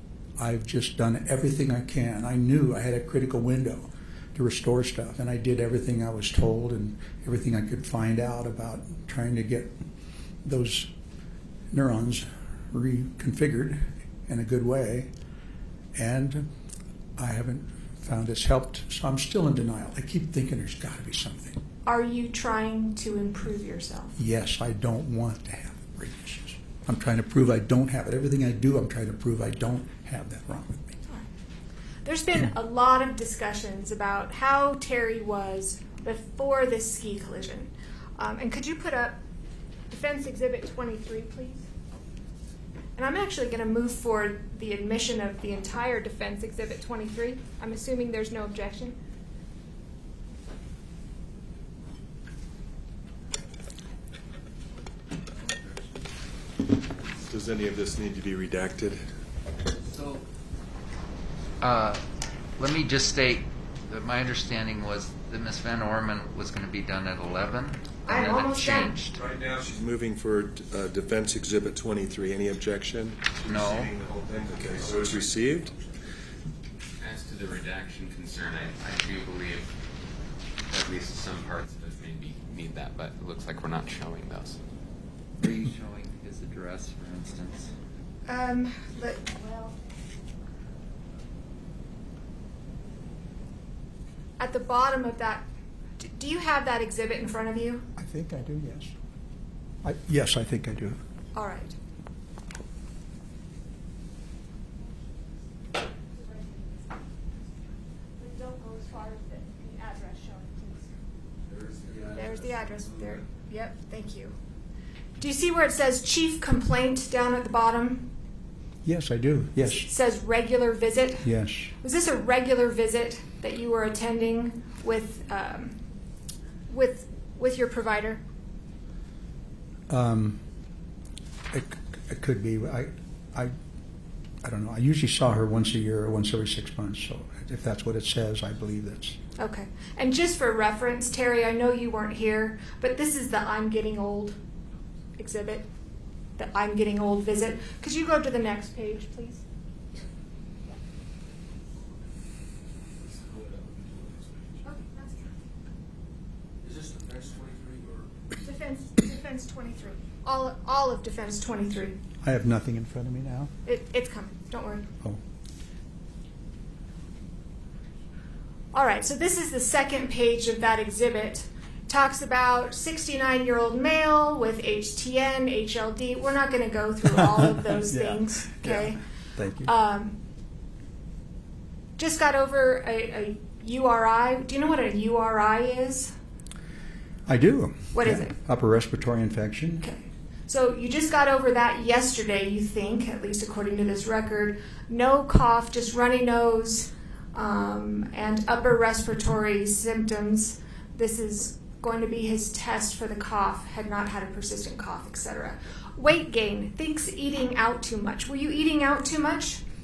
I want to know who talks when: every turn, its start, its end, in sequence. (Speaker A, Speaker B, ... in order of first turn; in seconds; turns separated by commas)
Speaker A: 0.4-9.8, Speaker A: 10.4-10.9, Speaker A: 11.7-15.1, Speaker A: 15.9-16.5, Speaker A: 17.2-21.6, Speaker B: 21.8-24.1, Speaker A: 24.2-31.0, Speaker B: 32.0-39.2, Speaker B: 39.9-41.6, Speaker B: 43.0-49.0, Speaker C: 57.3-59.0, Speaker D: 59.9-60.2, Speaker D: 61.6-62.0, Speaker D: 62.6-69.2, Speaker B: 68.0-68.9, Speaker C: 69.1-75.7, Speaker D: 73.4-73.9, Speaker E: 77.0-79.7, Speaker E: 80.7-84.6, Speaker D: 85.4-87.7, Speaker B: 88.3-89.8, Speaker B: 94.4-95.5, Speaker B: 96.0-97.8, Speaker A: 98.0-98.9, Speaker A: 99.8-101.0, Speaker B: 101.3-101.8, Speaker B: 106.1-107.0, Speaker B: 108.2-111.0, Speaker D: 111.5-113.2, Speaker B: 112.1-114.3, Speaker B: 115.2-118.1, Speaker A: 118.8-119.9, Speaker B: 119.7-121.3, Speaker A: 121.2-121.7, Speaker B: 121.8-125.8, Speaker B: 126.7-128.2, Speaker A: 129.9-130.5, Speaker A: 131.5-133.5, Speaker A: 134.4-139.2, Speaker B: 139.4-144.4, Speaker B: 145.2-145.7, Speaker B: 146.4-149.4, Speaker F: 153.0-154.7, Speaker B: 154.6-155.2, Speaker F: 156.6-158.1, Speaker B: 158.4-162.0, Speaker A: 162.2-163.5, Speaker B: 163.7-164.9, Speaker B: 168.7-179.0, Speaker A: 177.2-179.7, Speaker B: 179.6-180.2, Speaker B: 182.0-186.1, Speaker A: 187.3-189.9, Speaker B: 187.9-188.3, Speaker B: 189.8-209.6